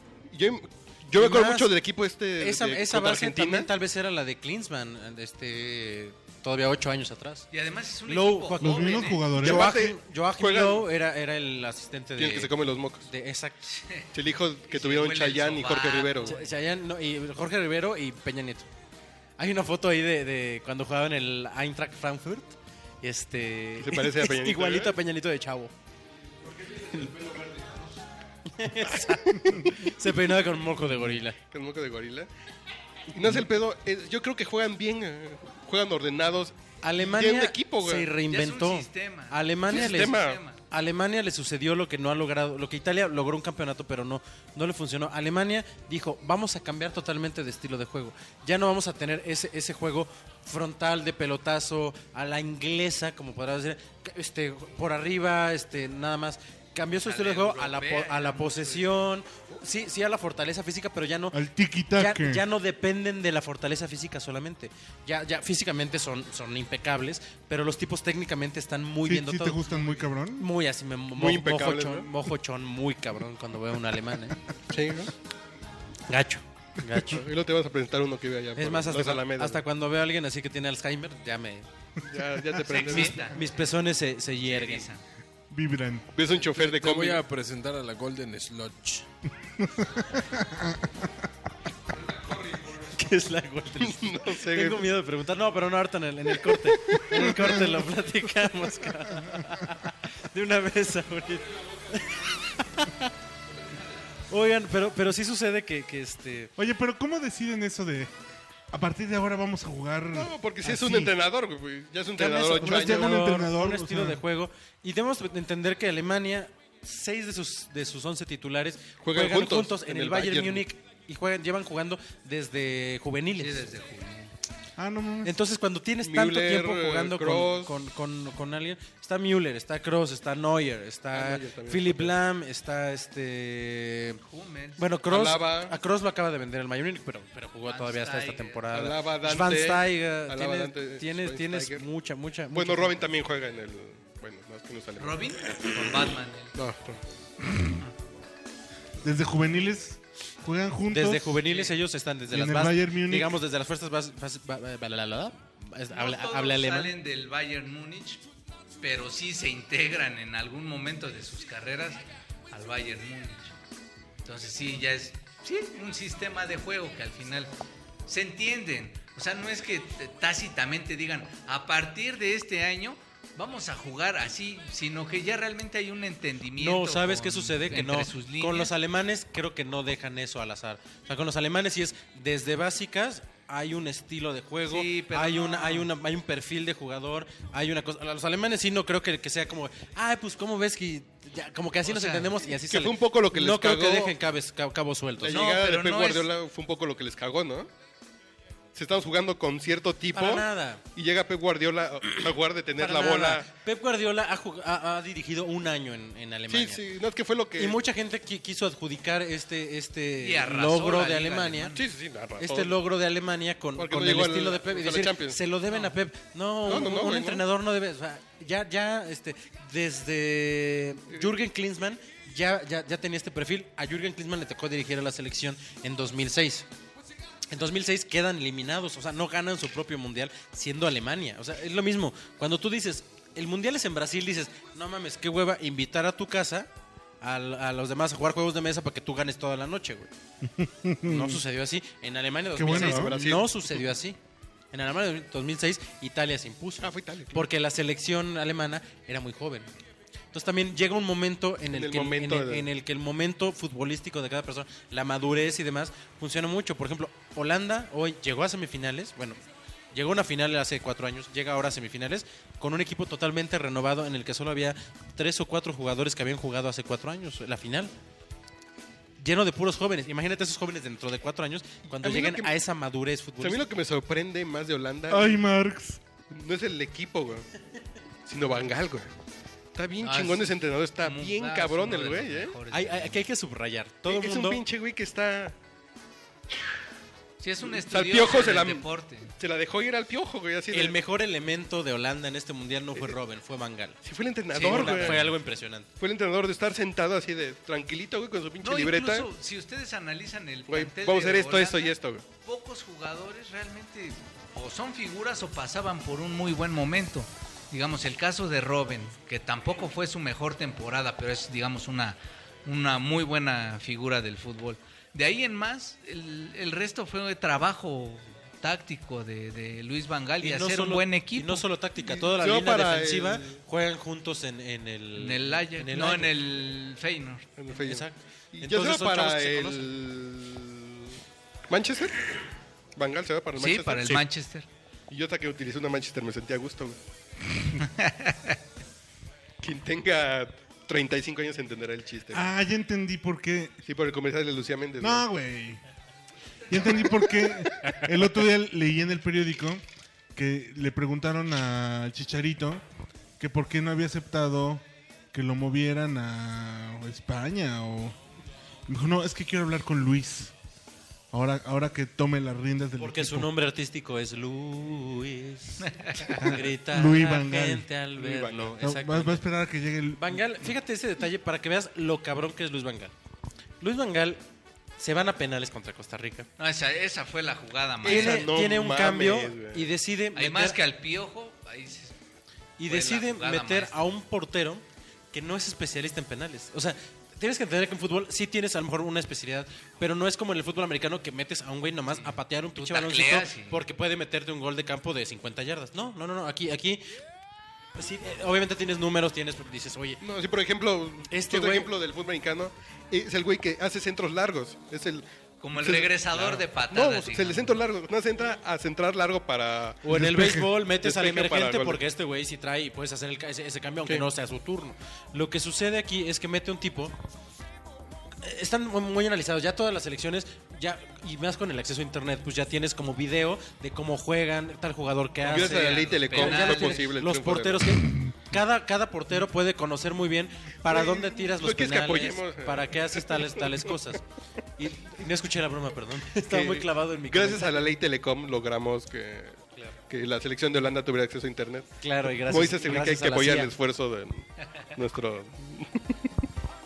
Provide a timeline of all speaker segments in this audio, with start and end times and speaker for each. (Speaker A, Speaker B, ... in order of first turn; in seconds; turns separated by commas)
Speaker A: 0.3-3.7, Speaker B: 1.1-1.7, Speaker B: 2.4-7.5, Speaker C: 7.5-9.3, Speaker B: 8.1-12.5, Speaker D: 8.6-9.8, Speaker A: 9.4-10.9, Speaker A: 12.2-13.1, Speaker B: 13.1-13.7, Speaker C: 13.7-14.1, Speaker A: 14.1-16.4, Speaker C: 14.7-16.5, Speaker B: 16.2-18.7, Speaker B: 19.4-25.7, Speaker A: 23.8-24.9, Speaker E: 26.5-27.9, Speaker B: 28.5-31.4, Speaker A: 31.5-32.3, Speaker A: 33.1-38.1, Speaker B: 36.8-40.2, Speaker C: 38.3-40.6, Speaker A: 39.7-40.4, Speaker B: 40.7-61.4, Speaker C: 57.0-59.1, Speaker D: 61.3-62.4, Speaker B: 61.9-69.6, Speaker D: 69.0-70.5, Speaker B: 70.4-74.4, Speaker A: 71.2-72.1, Speaker A: 74.7-75.1, Speaker B: 76.1-77.2, Speaker A: 76.9-79.6, Speaker B: 78.6-81.7, Speaker A: 82.1-83.3, Speaker C: 82.6-83.4, Speaker B: 83.0-84.9, Speaker C: 84.4-85.0, Speaker D: 85.5-86.1, Speaker A: 86.1-87.2, Speaker E: 86.5-89.0, Speaker D: 89.6-90.9, Speaker E: 92.3-92.7, Speaker B: 92.8-103.1, Speaker A: 93.8-94.9, Speaker A: 96.5-97.7, Speaker D: 99.2-99.6, Speaker B: 104.3-106.5, Speaker D: 106.6-108.1, Speaker D: 108.7-111.2, Speaker A: 110.1-113.2, Speaker B: 112.2-123.7, Speaker D: 112.6-114.2, Speaker A: 119.0-120.7, Speaker C: 123.4-124.3, Speaker D: 124.8-125.3, Speaker B: 125.2-134.2, Speaker A: 126.0-127.7, Speaker A: 131.1-132.2, Speaker C: 134.2-134.8, Speaker B: 134.8-143.0, Speaker A: 135.1-135.8, Speaker C: 137.7-138.7, Speaker A: 138.7-141.8, Speaker A: 142.5-145.7, Speaker C: 145.0-146.5, Speaker A: 146.6-147.0, Speaker D: 149.0-151.4, Speaker B: 150.9-156.9, Speaker C: 151.5-151.8, Speaker D: 152.3-153.4, Speaker C: 155.9-158.2, Speaker C: 158.8-163.6, Speaker C: 164.2-167.5, Speaker C: 168.1-178.7, Speaker B: 176.6-195.4, Speaker C: 184.7-185.9, Speaker C: 191.8-192.4, Speaker A: 192.7-194.2, Speaker A: 195.2-197.7, Speaker C: 195.3-196.3, Speaker A: 198.8-203.5, Speaker B: 200.1-200.8, Speaker B: 202.8-206.8, Speaker A: 206.5-207.8, Speaker B: 207.6-211.8, Speaker C: 210.2-211.9, Speaker A: 211.8-212.8, Speaker B: 212.4-226.7, Speaker A: 213.8-215.4, Speaker A: 216.6-217.4, Speaker B: 227.5-236.7, Speaker B: 237.2-240.1, Speaker D: 240.4-241.4, Speaker B: 241.0-244.2, Speaker D: 242.6-243.1, Speaker A: 242.7-243.9, Speaker B: 244.7-249.7, Speaker A: 246.8-247.4, Speaker B: 250.3-259.4, Speaker A: 251.7-252.7, Speaker B: 259.9-267.9, Speaker B: 269.2-273.6, Speaker A: 272.0-272.5, Speaker A: 273.4-275.4, Speaker D: 275.1-276.0, Speaker A: 276.3-277.5, Speaker A: 278.3-279.1, Speaker A: 279.8-282.6, Speaker C: 280.0-283.2, Speaker B: 282.7-284.6, Speaker A: 284.1-285.6, Speaker C: 287.4-289.3, Speaker A: 287.6-288.9, Speaker A: 289.4-291.0, Speaker B: 290.7-294.0, Speaker A: 294.0-295.4, Speaker C: 294.5-295.3, Speaker B: 294.5-295.9, Speaker A: 296.0-299.3, Speaker C: 298.6-321.7, Speaker A: 300.7-302.2, Speaker B: 320.4-326.3, Speaker A: 322.0-323.6, Speaker C: 325.2-327.5, Speaker A: 327.6-331.2, Speaker B: 327.7-329.9, Speaker A: 331.7-332.2, Speaker A: 333.0-334.2, Speaker C: 333.6-334.7, Speaker A: 335.1-337.0, Speaker C: 337.8-338.6, Speaker A: 339.6-342.5, Speaker D: 342.3-343.8, Speaker A: 343.9-345.3, Speaker D: 345.0-345.8, Speaker D: 346.7-349.8, Speaker D: 350.4-352.8, Speaker D: 353.4-358.2, Speaker D: 358.9-360.5, Speaker D: 361.3-363.5, Speaker B: 363.0-369.4, Speaker C: 365.8-366.5, Speaker D: 366.4-367.9, Speaker A: 368.2-368.8, Speaker D: 368.8-370.4, Speaker B: 370.2-373.1, Speaker B: 373.8-374.4, Speaker B: 375.0-376.5, Speaker C: 376.6-378.5, Speaker A: 378.0-379.9, Speaker B: 378.1-380.8, Speaker C: 380.4-382.1, Speaker B: 382.8-397.1, Speaker C: 382.9-384.0, Speaker C: 392.1-393.8, Speaker B: 398.0-400.2, Speaker A: 400.2-405.2, Speaker B: 401.3-401.9, Speaker C: 405.6-407.8, Speaker A: 405.8-412.0, Speaker B: 410.0-417.1, Speaker D: 410.1-410.7, Speaker B: 418.4-434.2, Speaker A: 425.4-428.0, Speaker C: 425.5-427.1, Speaker A: 430.9-433.9, Speaker B: 434.8-437.9, Speaker A: 436.4-446.1, Speaker B: 442.0-443.7